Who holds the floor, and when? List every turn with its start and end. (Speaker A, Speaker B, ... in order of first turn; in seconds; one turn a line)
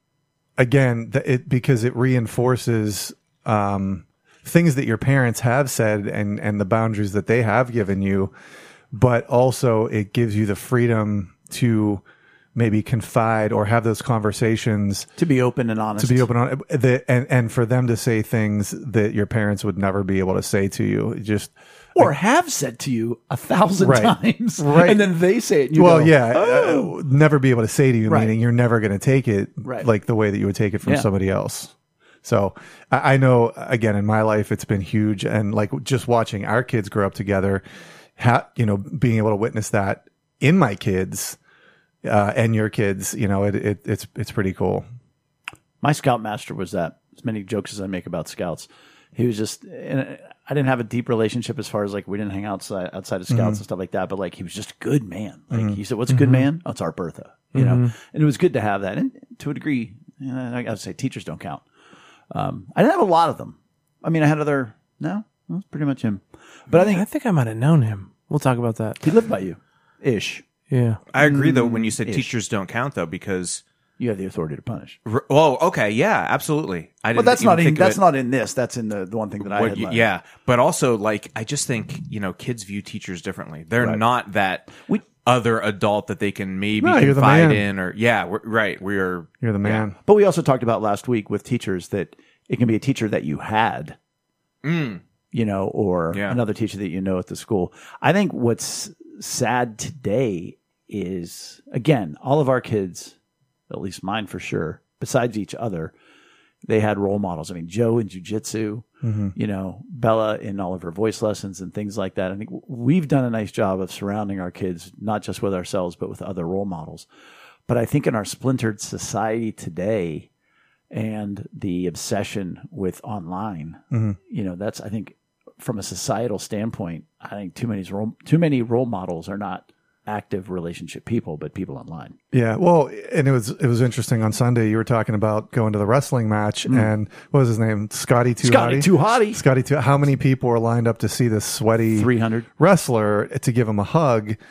Speaker A: 0.6-8.3
Speaker A: 8.9-12.0
Speaker A: 12.5-15.1
Speaker B: 15.2-16.3
Speaker A: 16.0-22.1
Speaker B: 21.9-26.9
Speaker A: 23.8-25.0
Speaker A: 25.7-31.7
Speaker B: 28.1-28.3
Speaker A: 32.2-37.6
Speaker A: 38.2-41.4
Speaker A: 42.0-44.8
Speaker B: 45.8-61.6
Speaker A: 53.3-53.6
Speaker A: 55.5-55.8
Speaker C: 56.1-56.5
Speaker C: 57.5-57.9
Speaker B: 62.3-67.0
Speaker C: 66.8-69.0
Speaker B: 69.0-70.4
Speaker C: 70.7-71.0
Speaker D: 71.1-73.6
Speaker B: 71.2-72.3
Speaker B: 74.0-75.0
Speaker D: 75.0-78.0
Speaker B: 77.1-80.1
Speaker D: 79.4-89.8
Speaker A: 86.8-87.6
Speaker A: 89.4-89.9
Speaker B: 90.0-94.0
Speaker D: 94.6-95.0
Speaker B: 95.3-103.1
Speaker D: 96.1-96.4
Speaker B: 103.7-105.9
Speaker B: 106.6-117.1
Speaker A: 109.0-109.3
Speaker B: 117.7-120.3
Speaker B: 120.9-132.2
Speaker A: 123.9-124.2
Speaker A: 132.3-144.4
Speaker B: 138.4-139.4
Speaker B: 141.9-142.5